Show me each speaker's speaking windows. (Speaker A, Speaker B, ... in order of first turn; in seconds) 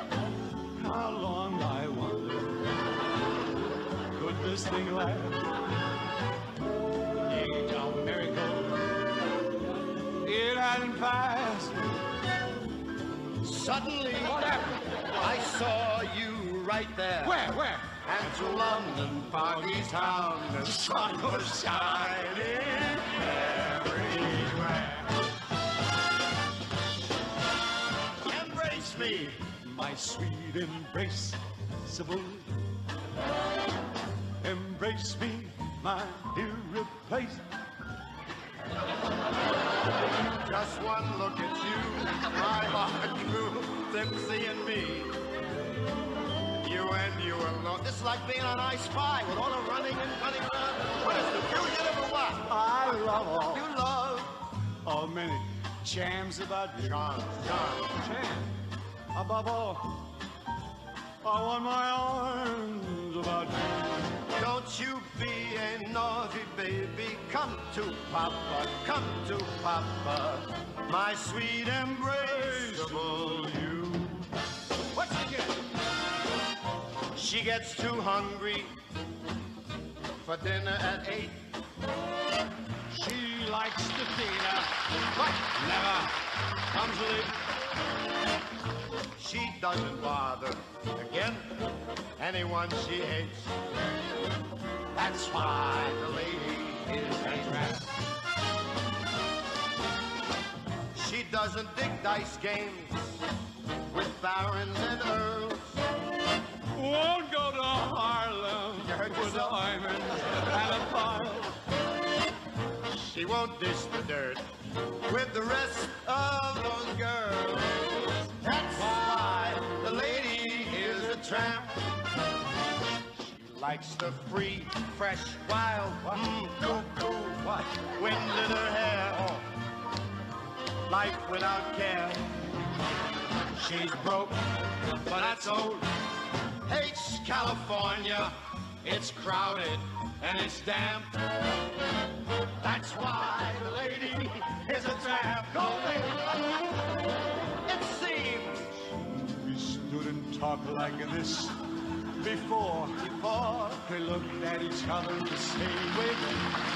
Speaker A: 0.8-2.7, 4.1-5.5, 7.3-8.8, 10.2-12.0, 14.4-14.7, 17.2-17.9, 20.8-21.9, 28.6-32.6, 34.4-37.5, 52.5-53.6, 54.8-57.1, 57.9-58.6, 59.1-60.1, 61.2-64.0, 72.2-74.3, 74.9-75.6, 82.9-86.2, 86.7-87.4, 94.9-97.9, 106.7-111.6, 118.9-119.7, 149.1-151.6, 152.2-156.5
Speaker B: 13.4-14.6, 15.1-17.4, 18.0-25.0, 28.2-29.4, 40.4-45.2, 46.6-52.5, 53.5-54.4, 56.8-58.0, 64.4-73.7, 77.2-78.8, 80.2-81.5, 89.2-91.6, 92.2-93.6, 95.5-97.8, 100.9-103.3, 103.9-105.8, 108.8-109.6, 112.8-114.5, 115.0-121.8, 123.2-129.5, 130.9-132.4, 133.6-134.4, 135.0-135.9, 136.7-141.2, 142.6-146.5, 147.7-148.9